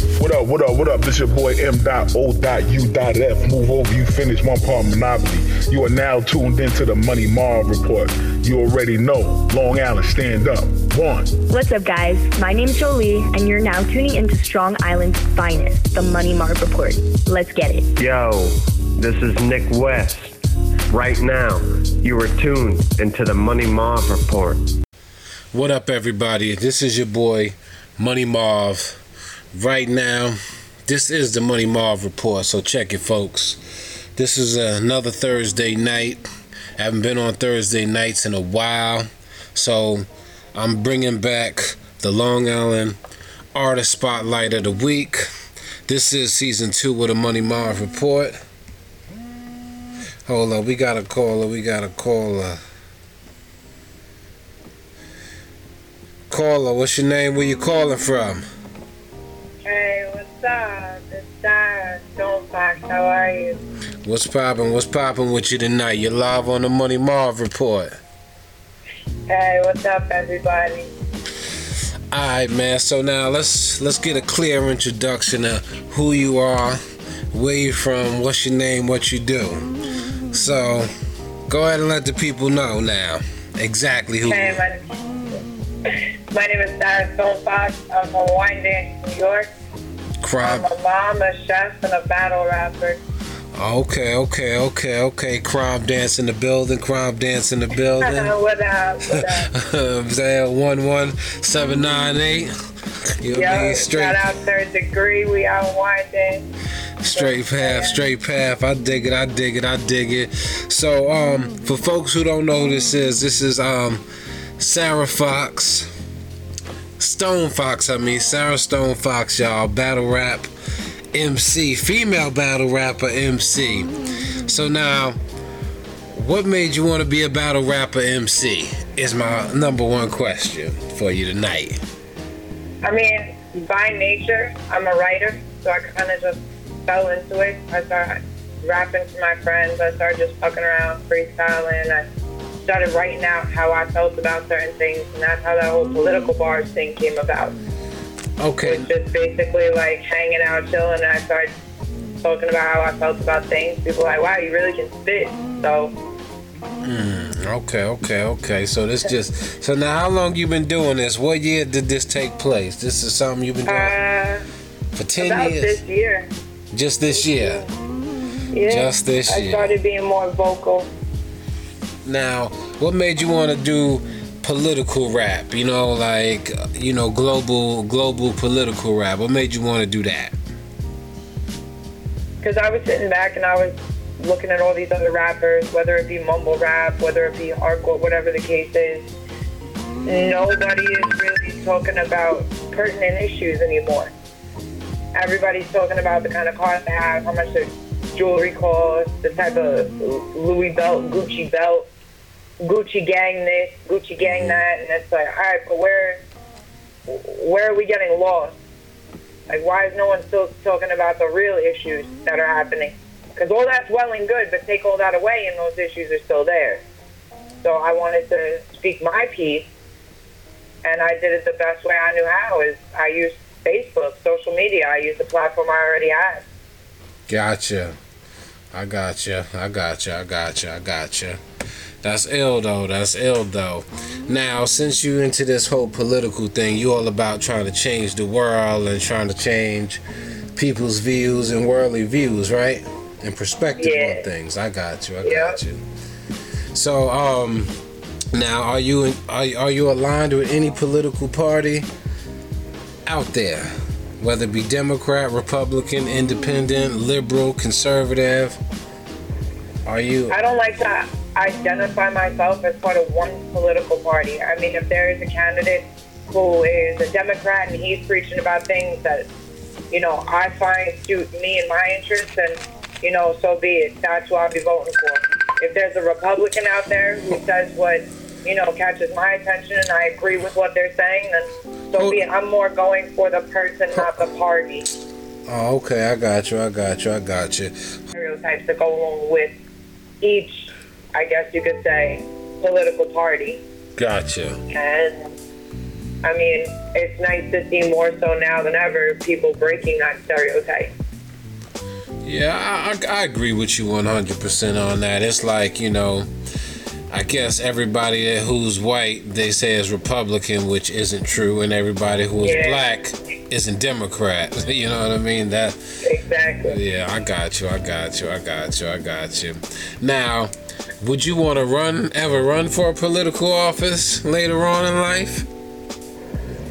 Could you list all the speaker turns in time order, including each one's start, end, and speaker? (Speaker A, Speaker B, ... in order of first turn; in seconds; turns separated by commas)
Speaker A: 0.2-11.3, Speaker B: 11.5-17.9, Speaker C: 18.0-20.3, Speaker C: 20.9-24.6, Speaker D: 25.5-29.0, Speaker D: 29.5-33.6, Speaker D: 34.1-36.2, Speaker D: 36.8-43.0, Speaker D: 43.5-45.2, Speaker D: 45.9-48.4, Speaker D: 50.2-52.6, Speaker D: 56.3-58.5, Speaker E: 59.6-63.6, Speaker D: 64.0-68.0, Speaker E: 69.3-70.9, Speaker D: 72.1-76.8, Speaker D: 77.3-79.7, Speaker D: 80.3-80.9, Speaker D: 81.5-84.6, Speaker E: 84.2-84.9, Speaker E: 85.9-89.5, Speaker D: 90.2-90.7, Speaker E: 90.4-93.0, Speaker D: 93.5-98.3, Speaker E: 98.0-99.5, Speaker D: 99.1-102.5, Speaker D: 103.2-104.2, Speaker E: 103.3-106.5, Speaker D: 107.0-114.0, Speaker E: 107.1-108.0, Speaker D: 114.6-115.9, Speaker D: 117.0-120.5, Speaker D: 121.1-123.9, Speaker D: 124.4-125.2, Speaker D: 126.1-131.8, Speaker E: 132.8-142.0, Speaker E: 142.7-147.6, Speaker D: 148.4-148.9, Speaker E: 148.6-151.5, Speaker E: 152.2-155.9, Speaker D: 156.8-163.9, Speaker E: 163.7-164.4, Speaker D: 164.9-165.8, Speaker E: 165.2-166.3, Speaker D: 166.7-167.6, Speaker E: 167.2-167.7, Speaker E: 168.5-170.9, Speaker D: 168.7-169.7, Speaker D: 172.0-180.3, Speaker E: 182.4-189.1, Speaker E: 190.0-194.1, Speaker E: 195.1-201.9, Speaker E: 202.6-206.2, Speaker E: 207.1-208.6, Speaker E: 209.5-216.8, Speaker E: 217.6-219.7, Speaker E: 220.8-226.4, Speaker D: 227.3-228.0, Speaker D: 228.7-231.4, Speaker D: 232.0-240.0, Speaker D: 240.6-245.8, Speaker E: 243.8-244.2, Speaker E: 245.2-245.6, Speaker D: 246.7-247.7, Speaker D: 248.3-251.9, Speaker D: 253.1-258.6, Speaker D: 259.9-260.4, Speaker E: 260.3-269.3, Speaker E: 269.9-284.9, Speaker D: 281.9-282.2, Speaker D: 285.5-287.7, Speaker E: 288.1-289.5, Speaker E: 290.2-293.6, Speaker D: 293.9-294.6, Speaker E: 294.7-295.4, Speaker E: 296.2-300.9, Speaker D: 302.2-306.3, Speaker D: 307.1-315.8, Speaker E: 312.4-312.9, Speaker E: 316.0-316.8, Speaker D: 316.7-325.5